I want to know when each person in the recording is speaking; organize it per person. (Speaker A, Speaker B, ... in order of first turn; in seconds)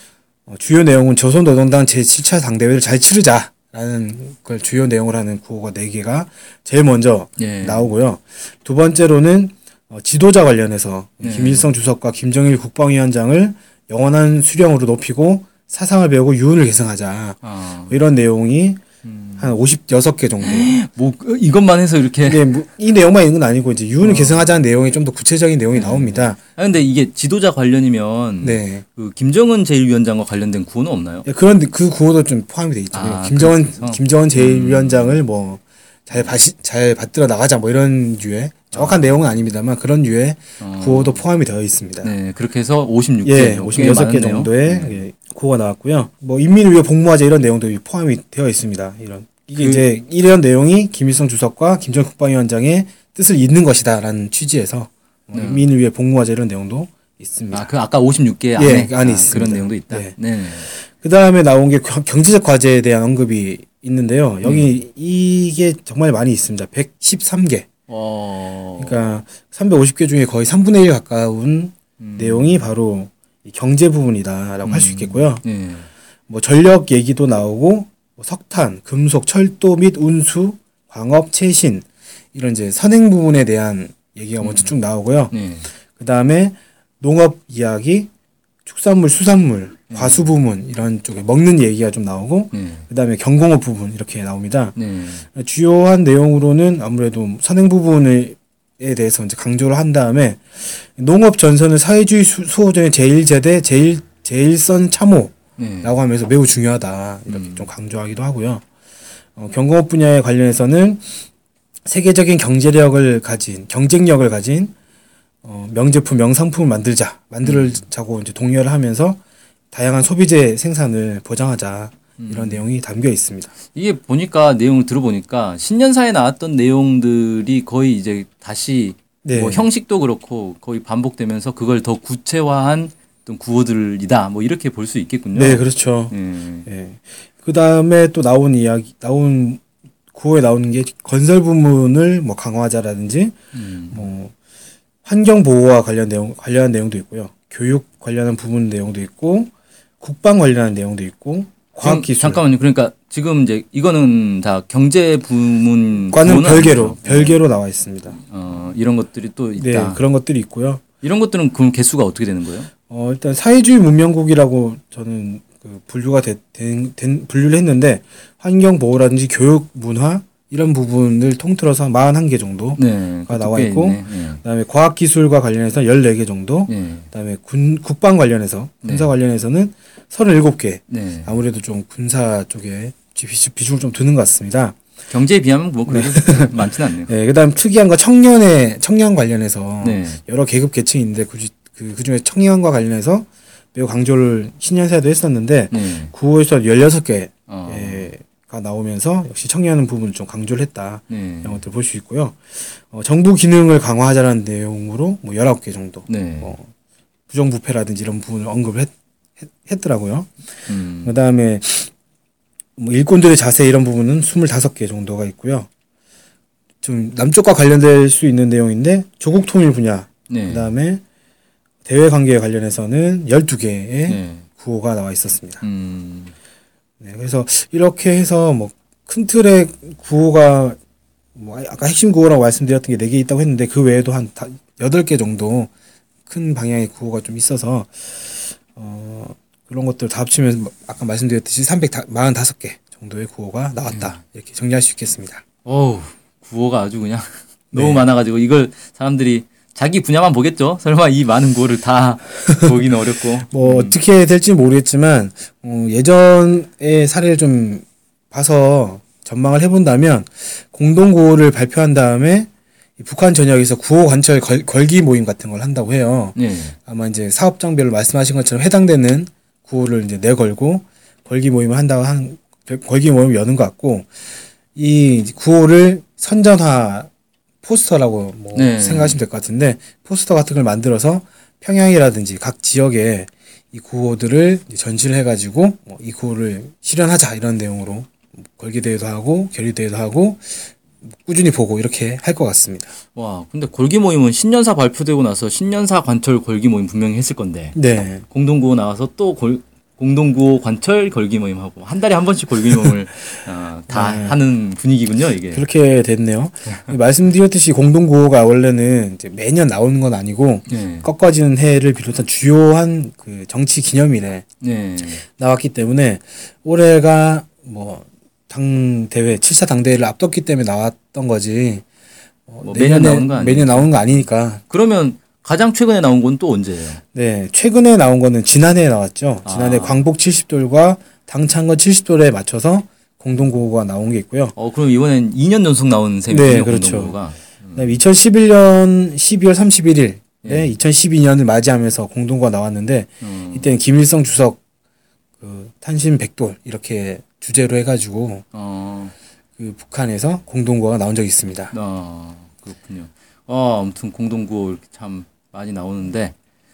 Speaker A: 0.5-18.8, 19.4-20.7, 22.2-26.4, 28.4-28.8, 31.2-42.1, 43.2-57.7, 58.6-60.1, 60.7-67.7, 68.8-75.4, 76.3-85.3, 86.0-88.1, 88.7-94.8, 95.3-108.6, 109.4-111.1, 111.8-114.7, 115.4-119.2, 119.7-123.5, 129.2-129.7, 135.3-136.2, 136.7-143.4, 143.9-144.3, 145.1-152.4, 156.1-158.2, 159.6-160.8, 162.9-184.8, 185.9-206.7, 207.3-208.9, 209.5-210.3, 211.0-211.9, 212.8-215.7, 216.8-221.0, 221.8-225.6, 227.0-230.8, 231.4-235.7, 236.3-245.4, 247.7-248.0, 253.5-274.1, 274.8-277.1, 277.6-292.9, 297.8-298.2, 303.9-304.4, 305.5-314.4, 315.2-321.9, 322.5-324.6, 327.1-334.5, 336.3-337.2, 337.8-344.6, 345.4-348.4, 349.6-351.7
Speaker B: 7.4-8.0, 11.2-11.7, 17.4-18.0, 19.0-19.6, 20.4-22.6, 24.0-24.6, 25.7-31.3, 32.9-35.2, 38.7-39.5, 40.6-41.2, 42.0-45.0, 49.6-49.9, 55.3-55.7, 57.5-60.7, 64.4-64.7, 67.9-69.2, 72.0-72.7, 74.7-75.9, 84.4-84.7, 85.3-85.7, 89.9-90.3, 92.5-92.8, 94.8-95.2, 105.6-105.9, 107.3-107.7, 117.4-117.8, 122.2-122.6, 123.7-136.7, 143.5-144.1, 151.8-157.4, 158.1-160.0, 161.0-162.7, 172.8-174.4, 176.7-177.1, 178.8-179.1, 180.9-181.3, 185.1-187.1, 189.8-190.2, 195.7-196.1, 197.5-198.1, 201.1-201.6, 206.1-206.6, 210.7-211.1, 220.3-220.7, 224.1-224.5, 225.6-226.3, 243.9-244.2, 245.7-254.0, 266.4-266.8, 278.5-279.2, 293.1-297.8, 298.3-305.6, 310.7-311.1, 314.6-315.2, 322.6-327.0, 329.4-330.0, 334.6-338.0, 340.4-340.7, 343.2-343.8, 348.5-349.1, 351.7-356.4